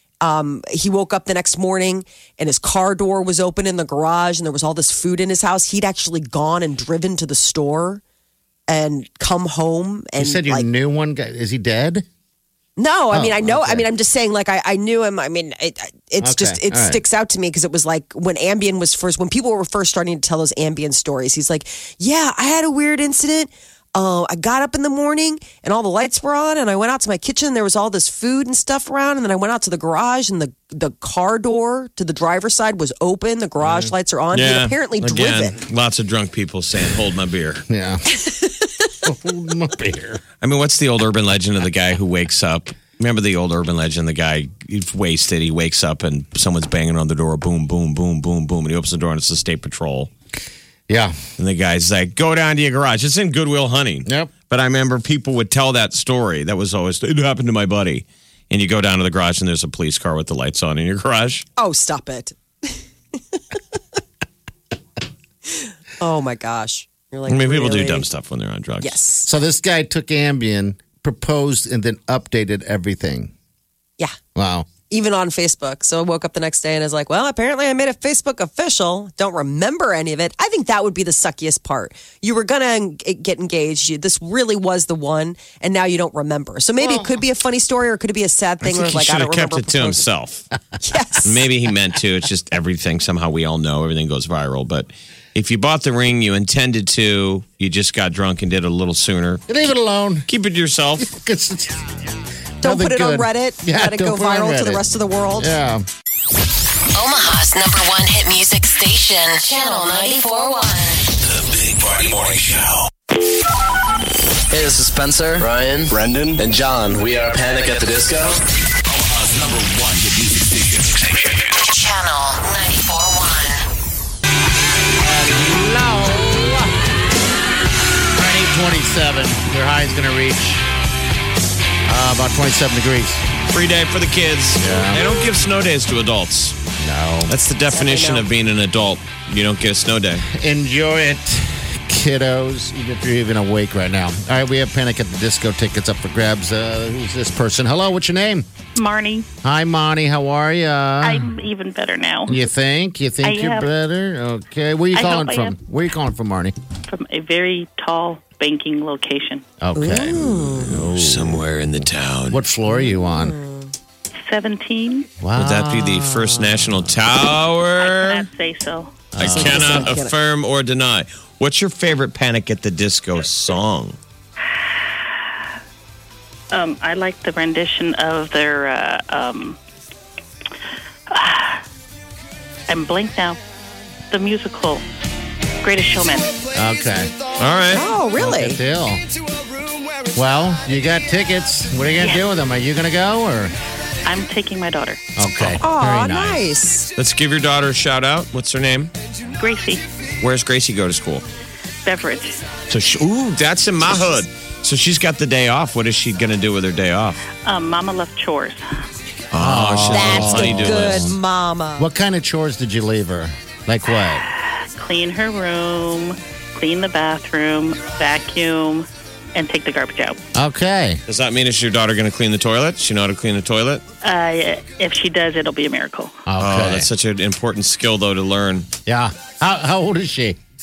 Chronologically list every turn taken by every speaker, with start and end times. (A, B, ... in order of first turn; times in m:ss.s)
0:00.2-0:08.0 A
0:08.7-0:10.7 A
0:10.2-0:12.1 B
0:12.8-0:35.6 A
0:13.1-0:13.9 B
0:16.2-0:17.0 B
0:33.6-0:33.9 B
0:34.3-0:37.6 C
0:37.7-0:38.1 B
0:38.3-0:38.6 A
0:39.0-0:40.2 B
0:40.4-0:50.1 C
0:50.9-0:51.2 B
0:51.4-1:01.5 C
0:54.1-0:54.3 B
1:01.6-1:02.8 A
1:05.5-1:08.1 A
1:07.3-1:09.0 C
1:08.8-1:09.3 A
1:09.3-1:13.3 B
1:14.4-1:14.7 B
1:14.9-1:30.0 A
1:26.8-1:27.2 B
1:28.6-1:30.5 C
1:30.8-1:31.4 A
1:31.2-1:39.6 C
1:39.5-1:40.3 B
1:40.3-1:41.1 C
1:41.0-1:42.0 B
1:42.6-1:44.8 B
1:42.6-1:45.5 A
1:45.4-1:45.9 B
1:46.9-1:51.1 D
1:51.2-1:52.9 E
1:54.5-1:58.4 F
1:58.8-2:01.6 E
2:01.6-2:03.6 D
2:05.0-2:06.9 B
2:08.1-2:10.6 B
2:11.9-2:13.3 B
2:13.5-2:16.6 C
2:14.6-2:15.0 B
2:16.8-2:17.3 B
2:17.3-2:20.3 C
2:17.7-2:18.3 A
2:20.2-2:28.5 B
2:28.8-2:29.3 G
2:29.4-2:31.3 B
2:31.0-2:32.4 G
2:32.3-2:36.6 B
2:33.2-2:33.7 G
2:34.9-2:35.6 G
2:36.9-2:39.5 G
2:39.6-2:41.4 B
2:39.8-2:40.7 A
2:40.6-2:42.4 C
2:42.3-2:43.4 B
2:42.7-2:43.7 A
2:44.3-2:45.1 G
2:45.2-2:47.0 B
2:45.4-2:48.3 C
2:47.8-2:49.1 G
2:49.1-2:50.0 B
2:49.2-2:54.0 C
2:49.2-2:50.1 A
2:56.5-2:59.6 G
3:01.1-3:01.6 G
3:02.7-3:03.4 G
3:04.1-3:04.8 G
3:05.6-3:06.4 G
3:06.5-3:07.1 B
3:07.4-3:07.9 C
3:07.7-3:08.6 A
3:08.2-3:09.0 B
3:10.1-3:13.5 B
3:14.0-3:15.0 G
3:15.2-3:16.5 B
3:15.6-3:16.9 A
3:17.0-3:18.9 C
3:19.3-3:19.8 G
3:20.2-3:21.2 C
3:21.8-3:22.5 G
3:22.7-3:27.2 C
3:27.4-3:28.8 G
3:29.3-3:31.2 C
3:29.4-3:31.2 B
3:29.9-3:31.9 A
3:31.8-3:34.2 B
3:34.8-3:40.2 G
3:40.4-3:41.0 B
3:41.1-3:43.8 C
3:44.0-3:46.2 G
3:46.3-3:46.9 B
3:46.4-3:48.7 C
3:48.9-3:50.4 B